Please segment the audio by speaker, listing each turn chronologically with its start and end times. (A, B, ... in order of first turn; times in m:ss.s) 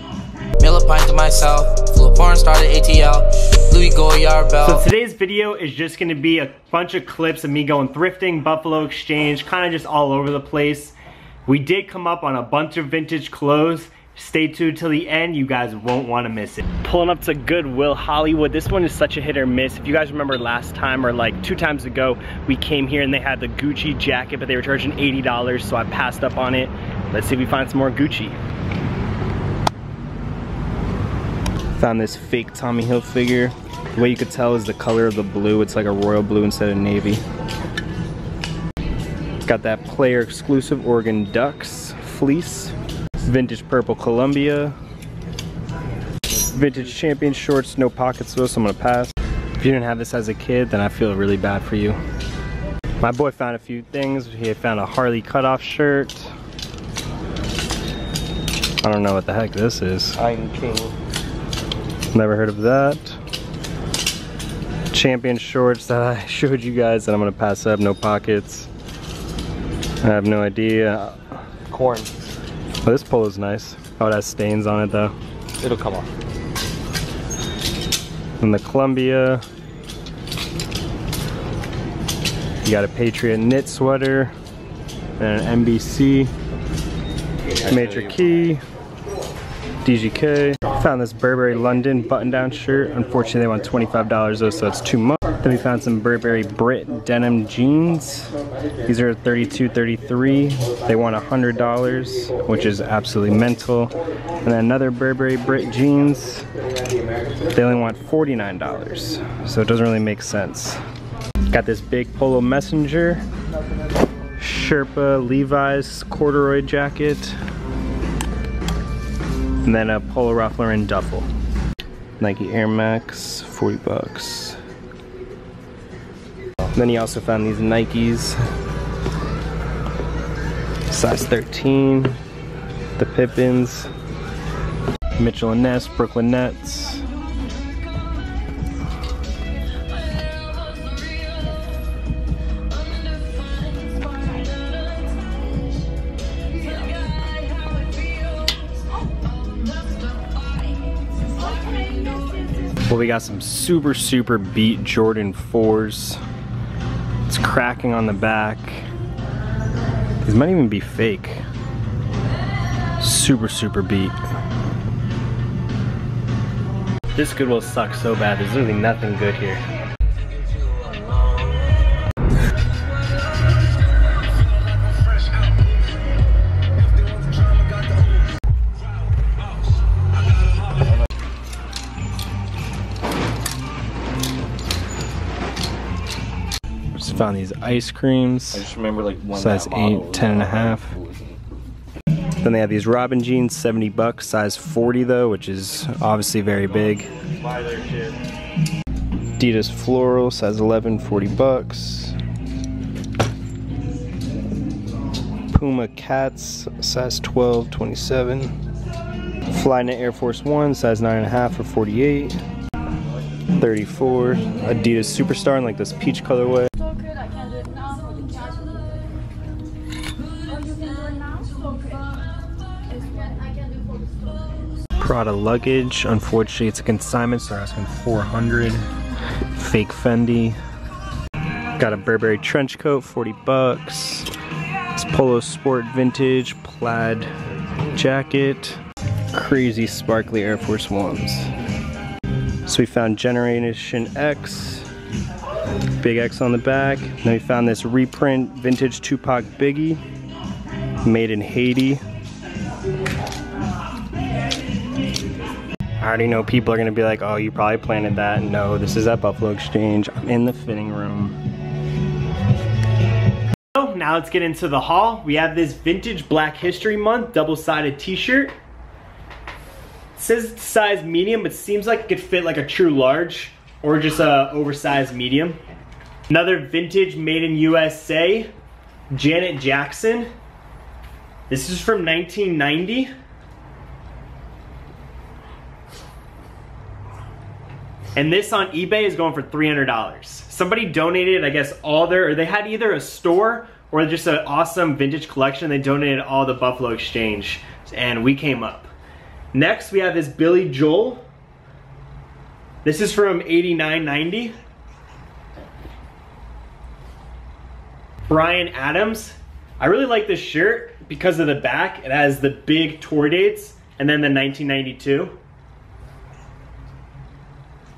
0:00.6-0:04.8 A
0:04.6-0:11.0 B
0:11.5-0:28.4 B
0:31.8-0:37.2 B
0:39.4-0:44.8 B
0:46.3-0:52.0 B
0:53.0-0:56.3 B
0:58.8-1:00.2 B
1:00.2-1:00.9 C
1:02.1-1:03.2 B
1:04.9-1:08.7 B
1:10.0-1:11.2 B
1:11.7-1:12.1 C
1:12.8-1:15.1 B
1:15.6-1:16.1 C
1:18.4-1:19.4 B
1:22.6-1:24.3 B
1:25.2-1:26.3 B
1:27.6-1:28.6 B
1:29.8-1:38.3 B
1:38.9-1:43.9 B
1:44.4-1:46.5 B
1:47.5-1:50.8 B
1:51.5-1:53.2 B
1:54.4-1:57.4 B
1:59.6-2:01.3 B
2:02.2-2:04.6 B
2:06.7-2:08.4 B
2:10.9-2:12.2 B
2:13.0-2:13.9 B
2:15.2-2:17.0 B
2:32.8-2:36.2 B
2:37.3-2:38.9 B
2:40.2-2:41.4 B
2:43.0-2:44.2 B
2:47.2-2:49.6 B
3:07.0-3:08.7 B
3:08.5-3:11.2 C
3:09.4-3:10.9 B
3:12.4-3:17.1 B
3:17.5-3:18.0 C
3:19.4-3:22.2 B
3:25.5-3:28.5 B
3:29.5-3:32.4 B
3:33.6-3:36.7 B
3:45.0-3:48.8 B
3:49.5-3:50.6 B
3:51.8-3:54.3 B
3:55.0-3:57.3 B
3:57.9-3:58.8 B
3:59.3-4:01.5 B
4:02.7-4:04.9 B
4:06.0-4:10.0 B
4:11.0-4:12.0 B
4:16.0-4:21.4 B
4:23.7-4:28.5 B
4:30.2-4:35.6 B
4:36.3-4:38.5 B
4:39.1-4:40.3 B
4:41.5-4:43.1 B
4:48.2-4:58.9 B
4:59.5-5:01.2 B
5:02.8-5:04.6 B
5:08.3-5:15.4 B